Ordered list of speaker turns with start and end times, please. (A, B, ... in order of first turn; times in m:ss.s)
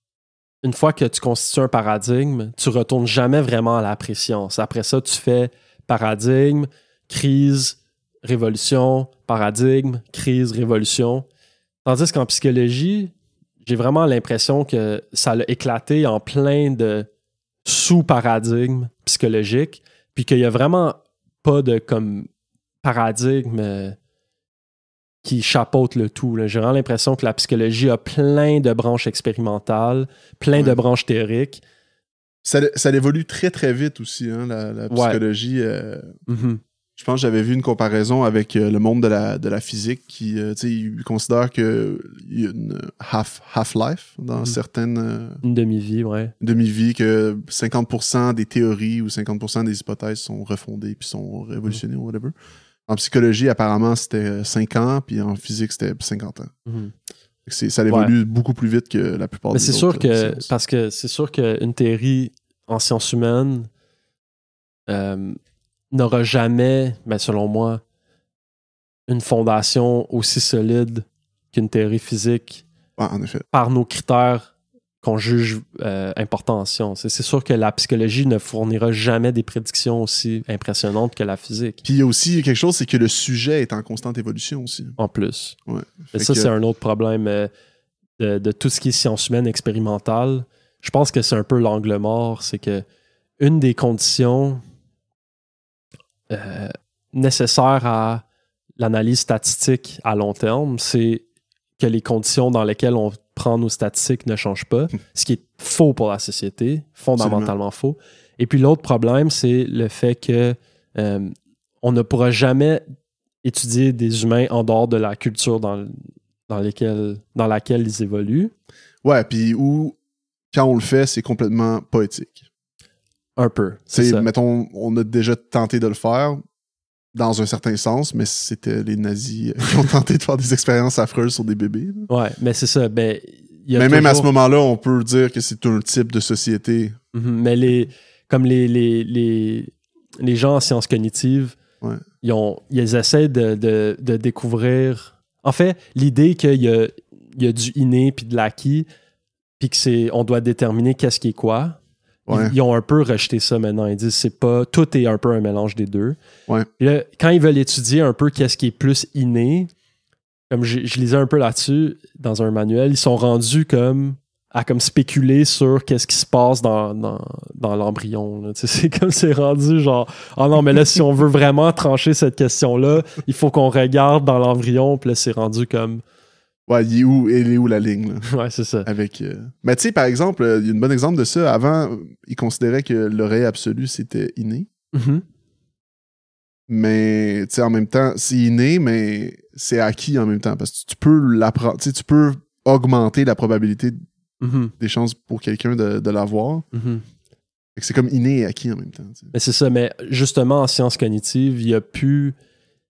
0:00.6-0:11.2 A
0:11.8-0:17.1 A
0:17.6-0:22.3 A
0:22.8-0:24.0 A
0:25.2-0:31.6 A
0:30.5-0:30.8 B
0:32.4-0:36.1 B
0:34.9-0:35.2 A
0:36.3-0:36.6 A
0:37.0-0:45.4 B
0:45.4-0:46.3 A
0:46.4-0:52.3 B
0:52.9-0:56.5 B
0:56.7-0:56.9 A
0:57.4-1:00.5 B
0:59.5-1:03.7 A
1:04.9-1:05.4 A
1:05.9-1:07.8 A
1:09.1-1:12.6 A
1:13.0-1:13.4 B
1:13.5-1:21.8 A
1:21.8-1:25.0 B
1:25.0-1:25.6 A
1:25.7-1:26.5 B
1:26.1-1:27.5 A
1:28.2-1:32.8 A
1:33.4-1:34.6 A
1:36.3-1:38.2 A
1:38.8-1:41.2 A
1:41.8-1:52.8 A
1:47.2-1:47.5 B
1:53.4-1:56.0 A
1:56.5-1:58.5 A
1:59.0-2:00.0 B
2:00.5-2:02.4 B
2:03.4-2:04.3 A
2:03.9-2:06.4 B
2:07.1-2:12.1 B
2:12.1-2:14.3 A
2:13.7-2:17.0 B
2:17.1-2:21.6 A
2:22.2-2:28.8 A
2:29.6-2:36.2 A
2:32.3-2:32.5 B
2:36.8-2:39.7 A
2:40.5-2:56.0 A
2:56.7-2:58.3 B
2:58.3-2:58.9 A
2:58.8-3:04.7 B
3:04.9-3:05.2 A
3:06.7-3:14.0 B
3:14.4-3:14.7 A
3:14.8-3:16.6 B
3:16.7-3:17.0 A
3:17.8-3:19.3 B
3:19.3-3:22.4 A